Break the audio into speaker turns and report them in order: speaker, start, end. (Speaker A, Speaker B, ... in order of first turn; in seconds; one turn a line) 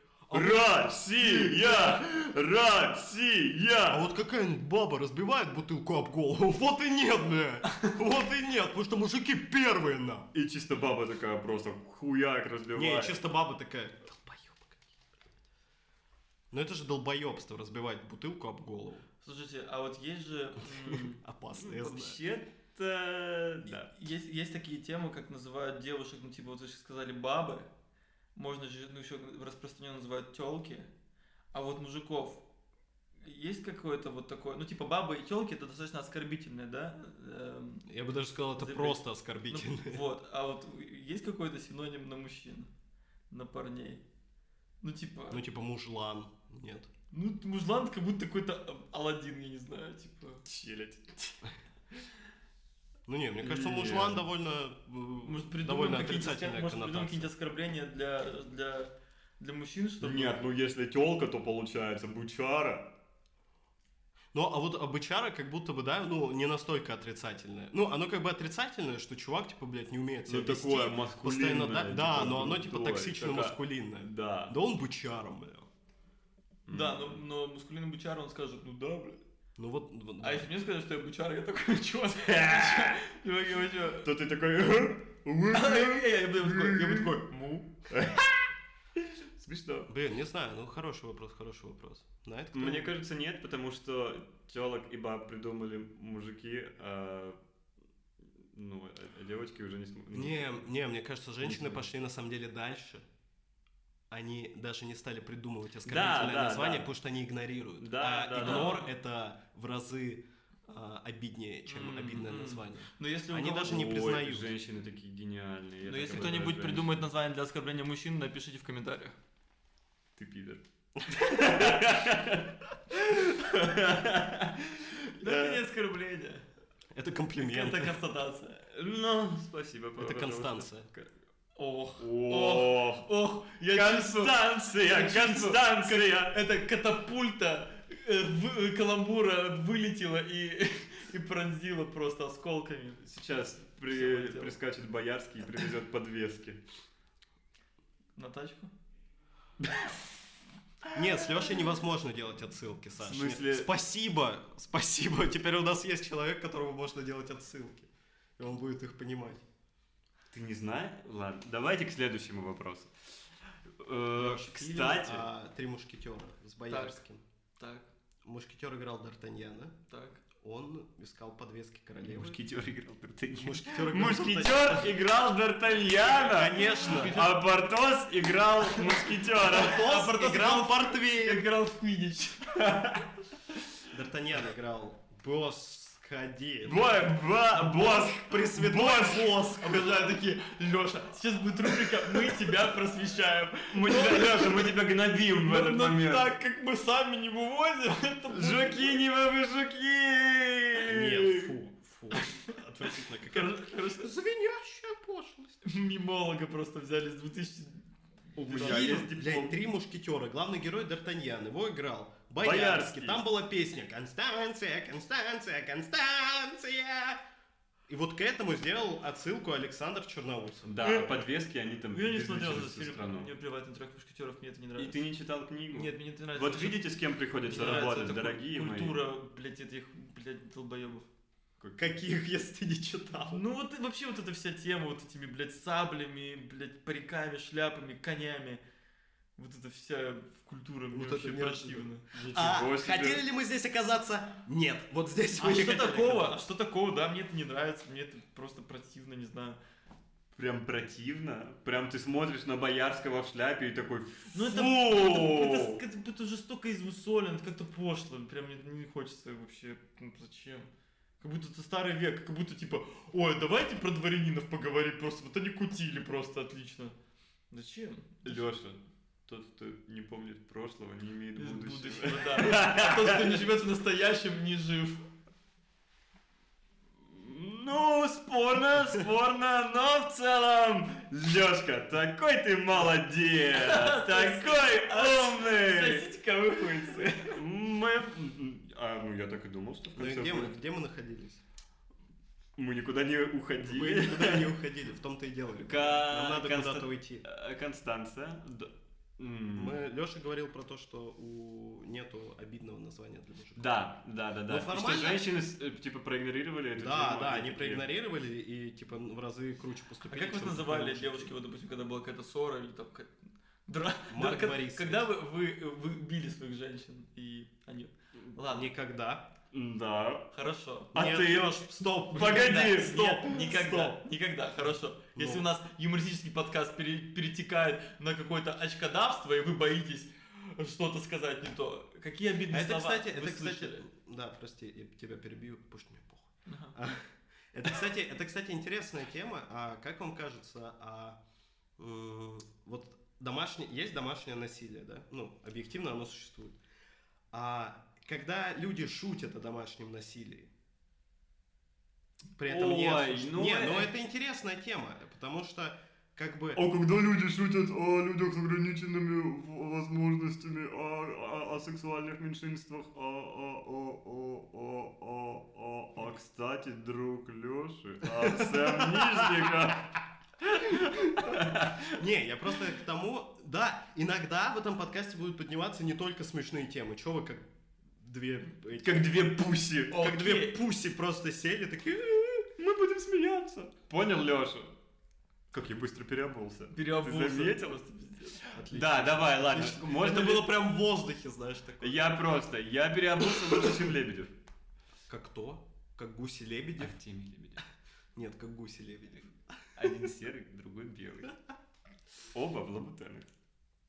Speaker A: 0.3-0.9
Speaker B: 0.3-4.0
Speaker C: 1.4-1.9
Speaker A: 3.9-10.3
Speaker B: 10.3-13.2
Speaker A: 12.7-15.1
Speaker A: 16.5-19.1
Speaker C: 19.2-21.2
Speaker A: 20.8-22.2
Speaker B: 21.6-23.9
Speaker C: 23.9-27.7
Speaker C: 28.3-30.9
Speaker C: 31.5-32.4
Speaker C: 33.2-37.9
Speaker A: 37.9-40.0
Speaker C: 38.5-42.7
Speaker C: 43.3-44.0
Speaker C: 44.8-45.4
Speaker A: 45.3-46.9
Speaker C: 47.1-50.4
Speaker B: 50.4-51.1
Speaker A: 53.1-57.3
Speaker B: 53.4-54.2
Speaker C: 55.2-60.4
Speaker B: 60.0-62.9
Speaker A: 64.3-75.7
Speaker B: 70.3-74.5
Speaker B: 76.7-77.2
Speaker C: 76.7-79.2
Speaker A: 79.6-80.5
Speaker C: 80.2-84.1
Speaker B: 82.2-83.0
Speaker B: 84.0-87.2
Speaker C: 85.5-87.7
Speaker B: 87.9-88.4
Speaker B: 89.4-89.9
Speaker A: 89.9-92.9
Speaker B: 92.5-97.4
Speaker B: 98.4-100.7
Speaker A: 100.1-103.0
Speaker B: 101.4-101.9
Speaker A: 104.1-114.5
Speaker B: 105.8-106.9
Speaker B: 107.8-108.8
Speaker C: 108.4-108.9
Speaker C: 111.7-113.9
Speaker B: 113.6-117.1
Speaker C: 115.8-119.2
Speaker B: 120.2-124.7
Speaker C: 125.2-126.4
Speaker B: 125.2-125.6
Speaker A: 126.9-128.0
Speaker C: 127.4-128.6
Speaker B: 128.7-131.1
Speaker A: 130.0-130.9
Speaker C: 131.6-143.0
Speaker B: 132.0-133.1
Speaker B: 133.7-136.4
Speaker B: 143.0-146.6
Speaker C: 143.9-144.6
Speaker C: 148.2-148.7
Speaker A: 150.9-159.4
Speaker B: 153.0-153.7
Speaker B: 160.3-162.9
Speaker B: 163.7-165.2
Speaker A: 164.1-167.2
Speaker C: 166.7-167.0
Speaker C: 167.6-167.9
Speaker A: 168.2-169.8
Speaker C: 169.9-170.2
Speaker A: 170.4-172.4
Speaker B: 172.0-179.8
Speaker A: 173.3-174.9
Speaker A: 176.2-177.2
Speaker C: 176.7-177.4
Speaker C: 179.5-182.6
Speaker A: 179.5-181.4
Speaker B: 182.5-183.1
Speaker A: 183.9-189.9
Speaker B: 186.6-189.3
Speaker C: 189.6-194.8
Speaker B: 193.7-196.3
Speaker C: 195.4-199.0
Speaker B: 198.3-201.5
Speaker A: 200.9-205.6
Speaker C: 202.1-202.6
Speaker C: 203.1-204.1
Speaker C: 205.6-207.8
Speaker B: 208.4-209.6
Speaker A: 208.4-217.2
Speaker C: 208.4-209.0
Speaker B: 212.4-213.2
Speaker A: 217.9-220.8
Speaker B: 220.7-223.3
Speaker C: 220.8-221.1
Speaker C: 221.9-225.0
Speaker B: 224.8-229.0
Speaker C: 225.7-226.9
Speaker C: 227.4-231.1
Speaker B: 231.6-231.9
Speaker A: 231.8-233.4
Speaker C: 233.3-238.6
Speaker C: 239.4-242.2
Speaker A: 240.9-246.4
Speaker B: 242.1-243.2
Speaker C: 245.4-249.6
Speaker B: 250.3-255.8
Speaker C: 254.3-260.7
Speaker C: 261.2-266.9
Speaker C: 267.5-268.4
Speaker B: 268.2-273.4
Speaker C: 271.4-275.0
Speaker B: 277.1-286.1
Speaker C: 283.5-287.4
Speaker B: 287.2-290.6
Speaker A: 289.9-291.4
Speaker B: 292.6-294.5
Speaker A: 293.6-297.2
Speaker B: 295.6-299.8
Speaker A: 299.6-303.7
Speaker B: 303.6-307.9
Speaker A: 304.5-305.3
Speaker A: 306.8-311.3
Speaker C: 310.1-313.1
Speaker C: 313.7-318.7
Speaker A: 314.1-315.1
Speaker A: 318.5-319.3
Speaker B: 319.5-320.3
Speaker C: 320.3-321.0
Speaker B: 320.9-323.9
Speaker A: 320.9-322.8
Speaker C: 322.1-333.8
Speaker A: 325.1-325.4
Speaker A: 332.5-341.2
Speaker C: 336.5-336.7
Speaker A: 341.8-346.6
Speaker A: 347.3-350.5
Speaker A: 352.4-356.6
Speaker B: 352.5-353.9
Speaker B: 356.5-370.0
Speaker A: 368.1-369.5
Speaker B: 370.5-372.0
Speaker A: 370.5-379.3
Speaker B: 378.8-380.0
Speaker C: 379.9-380.6
Speaker A: 379.9-382.5
Speaker B: 382.6-384.7
Speaker B: 385.5-387.8
Speaker C: 386.7-388.5
Speaker A: 388.5-392.0
Speaker B: 388.7-390.5
Speaker B: 391.8-394.3
Speaker A: 395.1-397.0
Speaker B: 396.8-397.6
Speaker A: 398.1-399.8
Speaker B: 399.8-401.4
Speaker B: 402.3-403.3